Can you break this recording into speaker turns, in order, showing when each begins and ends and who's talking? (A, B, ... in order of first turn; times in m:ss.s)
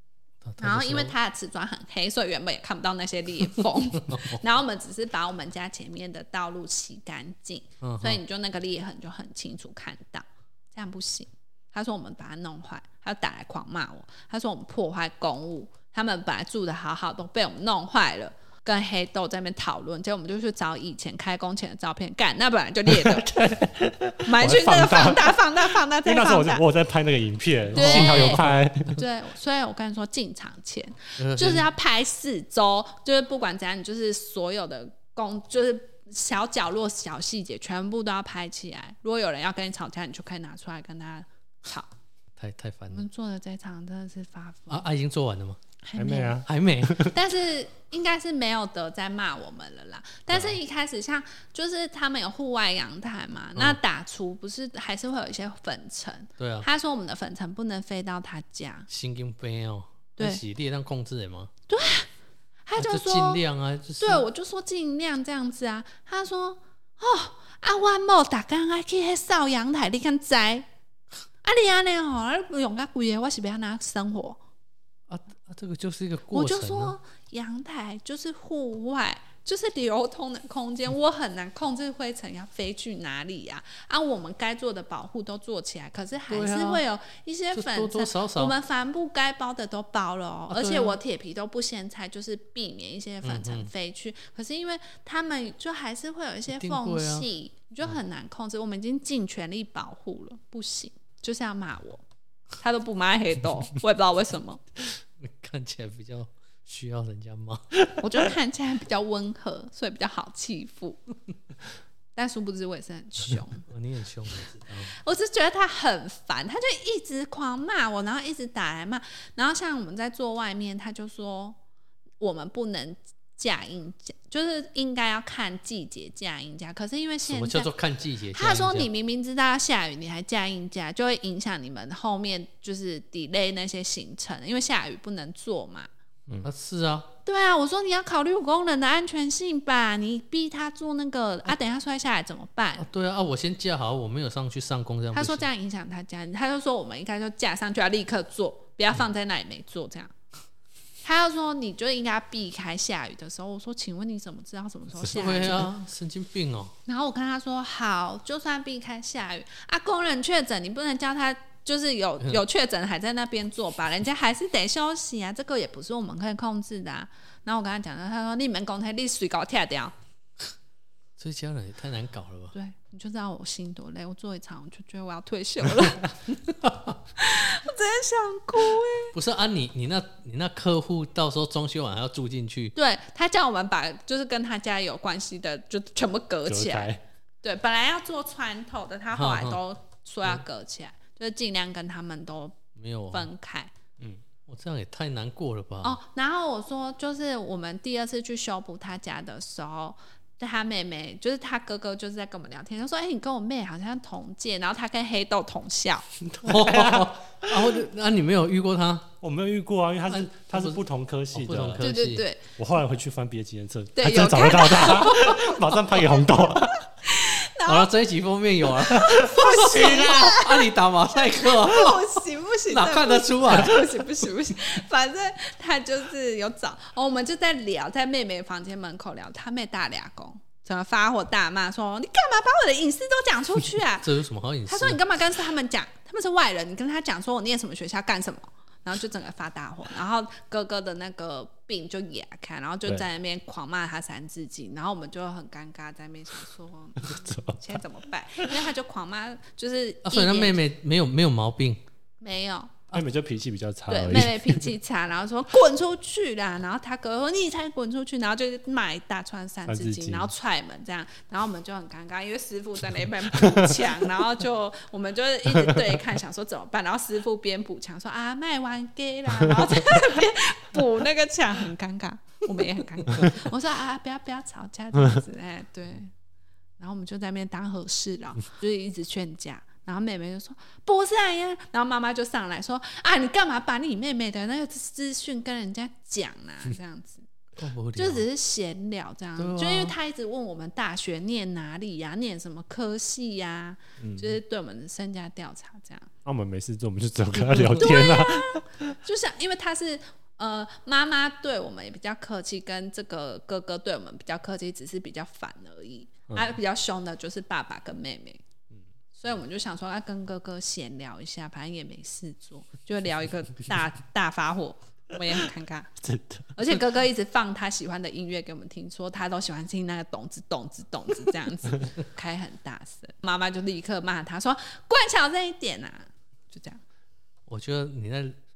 0:00.4-0:01.1 A
0:00.6-0:23.3 B
0:04.1-0:04.4 A
0:07.8-0:08.2 A
0:22.9-0:29.0 C
0:24.2-0:26.6 B
0:27.7-0:28.6 A
0:27.7-0:41.9 B
0:31.2-0:31.7 A
0:42.4-0:43.1 A
0:42.9-0:44.8 B
0:44.7-0:45.6 A
0:45.8-0:46.4 B
0:46.0-0:47.1 C
0:46.4-0:47.0 A
0:46.9-0:58.9 B
0:56.4-0:56.7 A
0:58.9-1:01.5 A
1:01.7-1:02.1 B
1:02.7-1:03.4 B
1:02.8-1:04.2 A
1:04.0-1:10.7 B
1:11.4-1:14.4 B
1:15.1-1:16.9 A
1:16.3-1:42.0 B
1:26.3-1:26.8 A
1:27.5-1:28.5 A
1:30.5-1:31.0 A
1:33.2-1:33.7 A
1:36.5-1:37.3 A
1:42.6-1:44.6 B
1:45.2-1:47.8 A
1:48.0-1:51.0 B
1:52.2-1:53.6 B
1:53.7-1:55.0 A
1:54.9-2:01.6 B
2:02.2-2:07.7 B
2:07.2-2:08.9 A
2:08.3-2:15.9 B
2:16.4-2:17.1 A
2:17.2-2:22.8 B
2:22.8-2:25.4 A
2:25.1-2:30.1 B
2:31.0-2:35.7 B
2:35.0-2:36.7 A
2:36.8-2:49.9 B
2:51.2-2:52.5 A
2:52.5-2:56.2 B
2:56.5-2:56.9 A
2:57.2-2:59.1 B
2:59.1-3:02.8 A
3:02.8-3:06.9 B
3:06.5-3:07.0 C
3:07.4-3:12.6 B
3:09.1-3:09.6 A
3:12.8-3:13.3 A
3:13.1-3:13.7 B
3:14.5-3:16.0 A
3:15.8-3:26.1 B
3:26.4-3:29.1 A
3:26.4-3:27.8 C
3:29.2-3:31.9 C
3:30.1-3:30.8 A
3:31.3-3:32.2 A
3:31.8-3:32.4 B
3:32.6-3:36.9 C
3:33.9-3:35.8 B
3:37.0-3:37.9 B
3:37.6-3:43.8 A
3:38.8-3:54.1 B
3:39.7-3:40.3 C
3:54.0-3:55.0 A
3:54.7-4:10.6 B
4:07.1-4:07.7 C
4:10.0-4:11.8 A
4:12.2-4:12.9 B
4:12.9-4:14.6 C
4:13.9-4:36.1 B
4:19.7-4:20.3 C
4:23.4-4:23.7 C
4:36.8-4:47.2 B
4:47.6-4:48.2 A
4:48.0-4:56.1 B
4:49.4-4:49.9 A
4:54.0-4:54.4 C
4:56.2-4:58.6 C
4:57.5-4:57.8 A
4:57.8-5:08.4 B
5:09.1-5:15.9 B
5:16.0-5:16.6 C
5:16.6-5:26.8 B
5:27.5-5:28.4 A